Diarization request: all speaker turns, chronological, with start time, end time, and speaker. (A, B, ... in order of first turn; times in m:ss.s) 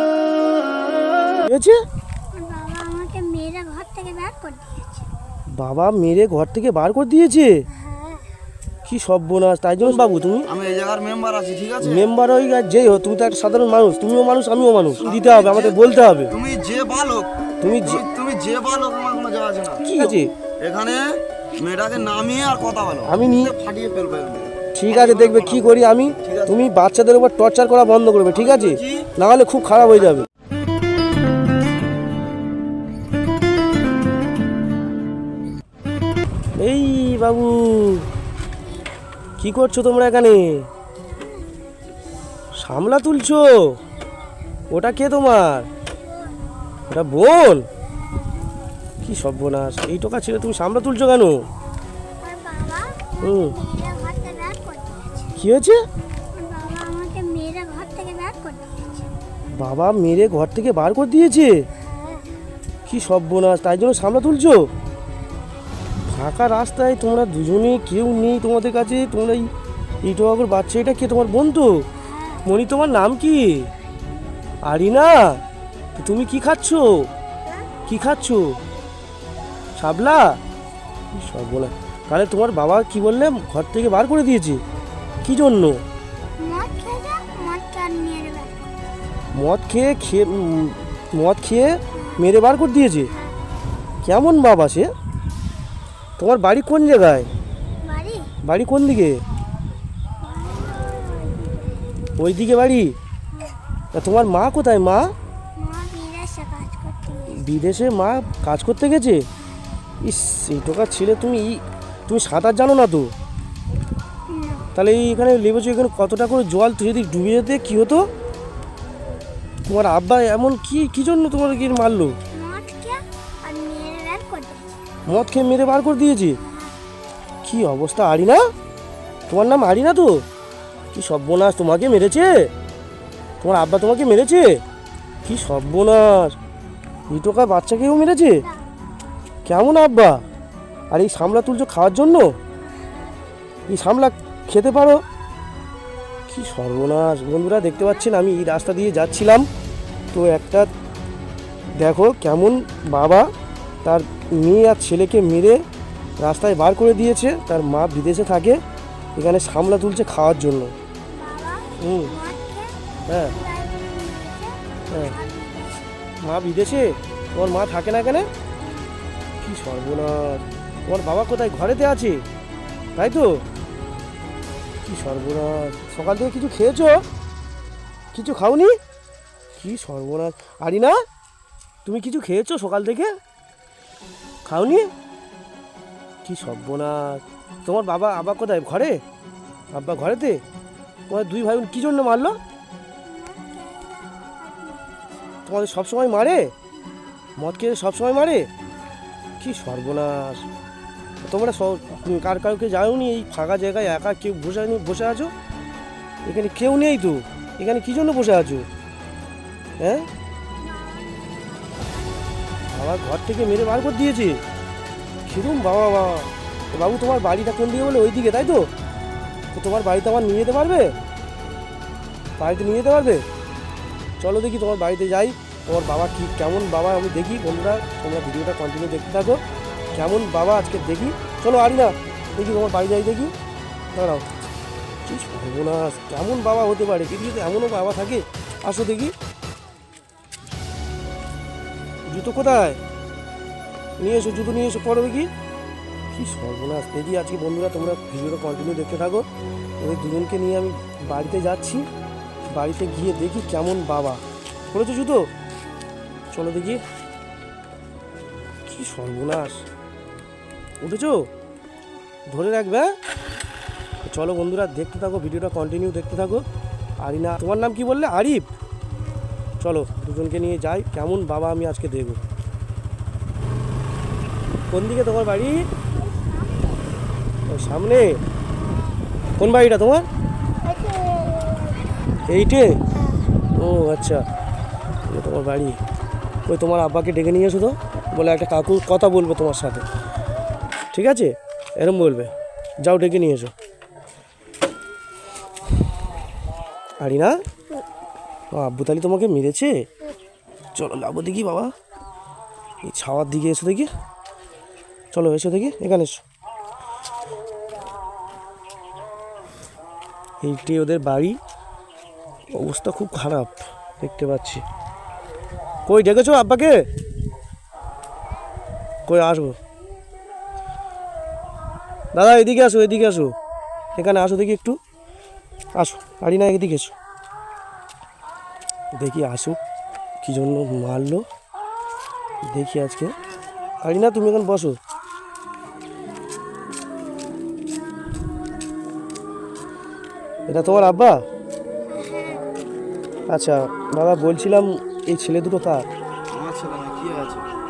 0:01.4-0:01.8 A
0:02.3-0:04.8 B
0:05.6-0:07.6 A
0:07.7-0:08.3 B
0:08.9-0:10.5 A
0:09.8-0:12.1 C
0:11.8-0:16.3 A
0:15.0-0:21.0 C
0:17.6-0:18.0 A
0:19.8-0:20.3 A
0:21.6-0:26.6 C
0:23.0-0:23.5 A
0:24.8-0:30.3 A
0:28.3-0:29.1 C
0:36.6-0:38.1 A
0:39.4-0:40.7 A
0:42.6-0:43.8 A
0:44.7-0:45.7 A
0:46.9-0:47.6 A
0:49.0-0:51.4 A
0:52.2-0:55.4 B
0:53.2-0:53.6 A
0:55.4-0:55.8 A
0:56.3-0:59.0 B
0:59.6-1:01.6 A
1:01.8-1:02.4 B
1:02.9-1:04.7 A
1:06.1-1:09.5 A
1:10.0-1:11.8 A
1:12.0-1:12.5 B
1:12.4-1:13.7 A
1:14.6-1:15.4 A
1:16.0-1:17.1 A
1:17.9-1:18.6 A
1:19.8-1:20.4 A
1:21.1-1:24.6 A
1:25.2-1:25.8 A
1:26.4-1:28.7 B
1:29.4-1:33.1 A
1:31.9-1:32.2 B
1:33.1-1:33.4 B
1:34.0-1:34.9 A
1:36.2-1:37.3 A
1:37.8-1:38.3 B
1:38.4-1:39.2 A
1:40.2-1:41.9 B
1:42.2-1:43.0 A
1:43.9-1:45.1 A
1:45.6-1:47.4 B
1:47.3-1:49.3 A
1:49.4-1:49.8 B
1:50.0-1:53.1 A
1:54.3-1:54.7 B
1:54.8-1:58.1 A
1:59.7-2:02.2 A
2:02.3-2:04.8 B
2:05.1-2:06.4 A
2:06.4-2:06.8 B
2:07.4-2:08.4 A
2:09.3-2:10.2 A
2:10.9-2:12.5 A
2:13.4-2:14.6 A
2:15.2-2:16.4 A
2:17.1-2:18.5 A
2:19.5-2:20.2 A
2:20.9-2:22.3 A
2:23.7-2:25.0 A
2:26.3-2:29.5 A
2:30.1-2:30.7 A
2:31.8-2:33.3 A
2:33.8-2:35.6 A
2:36.2-2:38.6 A
2:39.2-2:40.7 A
2:41.1-2:45.9 B
2:41.8-2:42.1 A
2:43.1-2:43.3 A
2:46.2-2:48.3 A
2:49.4-2:52.2 A
2:53.0-2:53.4 A
2:54.8-2:57.0 A
2:58.1-2:58.8 A
2:59.6-3:01.0 A
3:01.8-3:03.1 A
3:04.4-3:04.9 A
3:06.2-3:09.0 A
3:09.7-3:10.4 A
3:11.1-3:12.4 A
3:13.0-3:15.4 B
3:15.5-3:16.5 A
3:17.4-3:18.5 A
3:19.4-3:20.4 A
3:21.2-3:25.3 A
3:26.2-3:28.7 A
3:29.8-3:30.1 A
3:30.7-3:31.9 B
3:32.7-3:34.4 A
3:35.3-3:38.7 A
3:39.5-3:41.0 A
3:42.4-3:43.2 A
3:44.2-3:49.4 A
3:49.9-3:53.3 A
3:53.9-3:54.2 A
3:55.1-3:59.1 A
4:02.1-4:02.8 A
4:04.0-4:05.3 A
4:06.1-4:09.3 A
4:09.8-4:11.9 A
4:12.6-4:15.3 A
4:16.3-4:16.8 A
4:18.7-4:19.6 A
4:20.8-4:21.3 A
4:22.3-4:22.9 A
4:24.0-4:26.4 A
4:27.0-4:28.5 A
4:29.6-4:32.2 A
4:34.7-4:35.7 A
4:36.1-4:36.7 B
4:37.5-4:38.2 A
4:39.4-4:40.1 A
4:40.6-4:41.8 B
4:42.3-4:42.8 A
4:43.6-4:44.2 A
4:45.1-4:45.8 A
4:46.5-4:49.8 A
4:50.9-4:52.3 A
4:52.8-4:53.5 A
4:57.0-4:57.4 A
4:58.5-4:59.7 A
5:00.8-5:01.7 A
5:02.8-5:03.9 A
5:05.1-5:06.2 A
5:10.4-5:11.4 A
5:12.5-5:14.6 A
5:15.9-5:16.8 A
5:19.1-5:19.6 A
5:22.1-5:23.3 A
5:24.0-5:24.8 A
5:25.8-5:27.0 A
5:29.0-5:29.6 A
5:30.2-5:31.2 A
5:32.5-5:33.1 A
5:33.8-5:34.8 A
5:40.5-5:41.2 A
5:41.9-5:42.5 B
5:43.3-5:45.9 A
5:46.3-5:47.5 C